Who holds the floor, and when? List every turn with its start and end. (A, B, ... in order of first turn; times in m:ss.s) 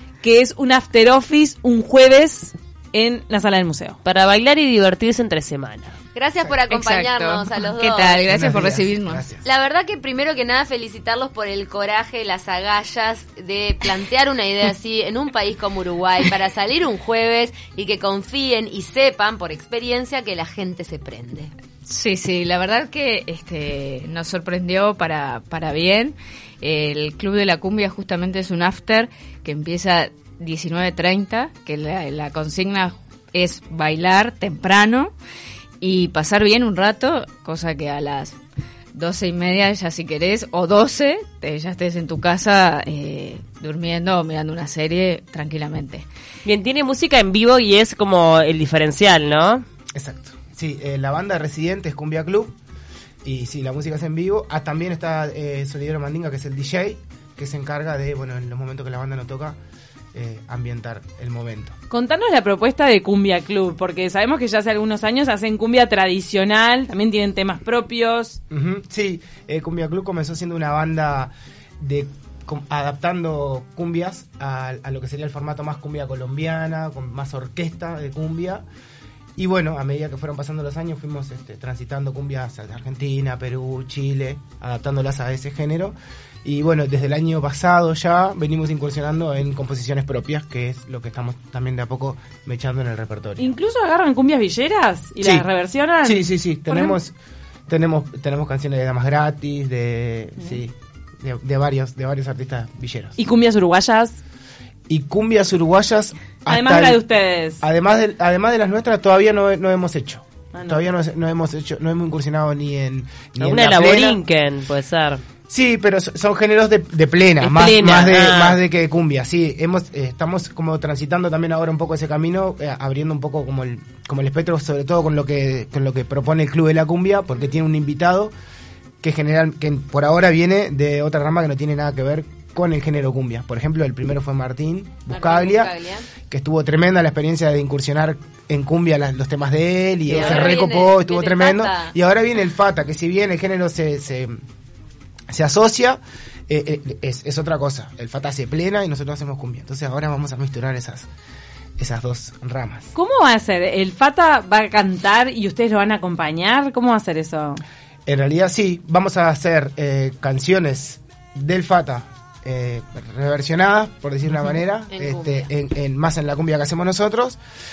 0:00.2-0:04.0 A
0:04.0-0:06.0 B
0:06.1-0:08.3 C
0:06.6-0:09.3 D
0:08.3-0:09.4 E
0:09.3-0:21.5 C
0:21.8-0:35.1 D
0:35.8-0:38.4 D
0:38.9-0:46.0 D
0:46.4-0:49.6 B
0:49.9-0:52.5 E
0:53.2-0:59.6 E
1:00.1-1:01.7 E
1:01.9-1:08.4 A
1:08.5-1:18.6 E
1:19.4-1:33.5 E
1:33.4-1:37.0 A
1:35.2-1:35.5 E
1:36.0-1:37.1 E
1:37.7-1:43.2 E
1:43.2-1:44.2 A
1:44.9-1:47.0 E
1:46.5-1:47.6 A
1:47.6-1:54.2 E
1:50.5-1:50.8 A
1:53.4-1:55.2 B
1:55.5-2:08.3 E
1:57.4-1:58.6 B
2:09.0-2:24.3 E
2:15.1-2:16.1 C
2:20.1-2:21.9 C
2:25.3-2:31.1 E
2:31.8-2:32.9 E
2:32.9-2:37.6 A
2:38.1-2:47.4 E
2:44.9-2:45.5 C